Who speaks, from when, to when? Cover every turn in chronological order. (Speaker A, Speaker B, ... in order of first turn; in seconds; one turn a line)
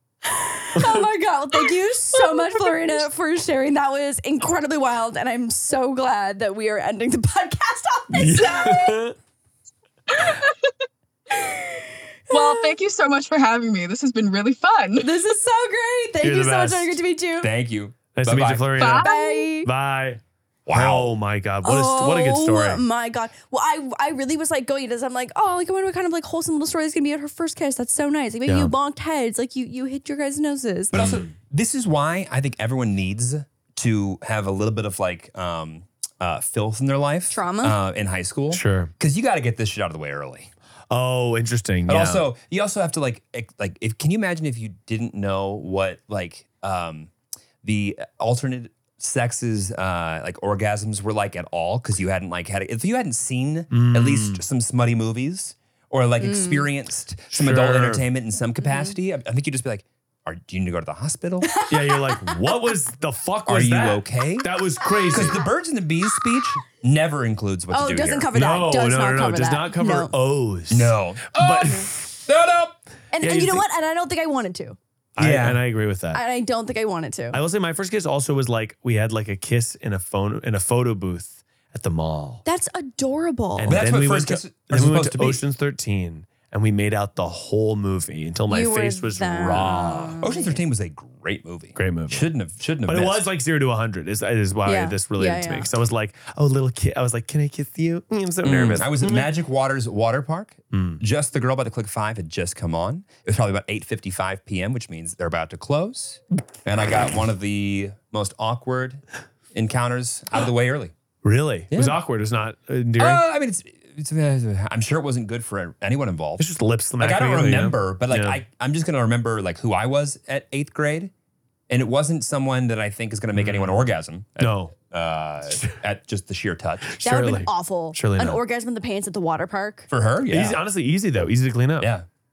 Speaker A: 0.3-9.0
Speaker B: 0.8-1.1
Speaker C: 2.1-3.0
Speaker B: 8.1-9.1
Speaker C: 10.1-10.7
Speaker A: 11.3-12.7
Speaker C: 12.3-15.2
Speaker A: 15.0-17.5
Speaker B: 16.2-17.0
Speaker D: 17.4-18.9
Speaker B: 18.1-19.1
Speaker C: 18.8-19.5
Speaker A: 19.0-19.7
Speaker B: 19.6-22.8
Speaker D: 20.7-21.1
Speaker A: 21.6-31.0
Speaker B: 28.5-28.7
Speaker D: 30.9-40.5
Speaker B: 30.9-31.3
Speaker A: 37.3-37.8
Speaker B: 38.5-38.9
Speaker B: 40.9-42.2
Speaker D: 41.9-47.1
Speaker D: 47.6-61.5
Speaker B: 53.7-54.4
Speaker A: 56.2-56.7
Speaker B: 57.3-58.0
Speaker A: 58.6-58.9
Speaker A: 61.4-62.7
Speaker B: 61.7-65.4
Speaker D: 63.5-64.5
Speaker D: 65.1-68.3
Speaker A: 67.7-70.1
Speaker B: 68.3-72.2
Speaker D: 70.7-72.8
Speaker A: 73.1-74.8
Speaker B: 73.2-73.7
Speaker D: 75.2-75.6
Speaker B: 75.2-76.2
Speaker A: 76.1-77.4
Speaker B: 77.3-82.4
Speaker A: 82.5-83.8
Speaker B: 83.6-90.2
Speaker D: 83.7-85.4
Speaker A: 88.5-90.6
Speaker D: 90.2-93.3
Speaker B: 91.8-92.3
Speaker B: 92.8-99.3
Speaker A: 94.7-95.7
Speaker D: 98.4-109.0
Speaker B: 100.7-101.0
Speaker D: 109.5-110.9
Speaker B: 111.2-113.2
Speaker D: 111.7-112.0
Speaker D: 113.0-116.5
Speaker B: 116.4-118.4
Speaker D: 117.0-121.1
Speaker D: 121.7-126.9
Speaker B: 123.3-123.8
Speaker B: 124.4-124.8
Speaker B: 126.9-128.4
Speaker A: 127.0-129.9
Speaker D: 129.9-130.6
Speaker B: 130.3-131.9
Speaker D: 131.8-132.1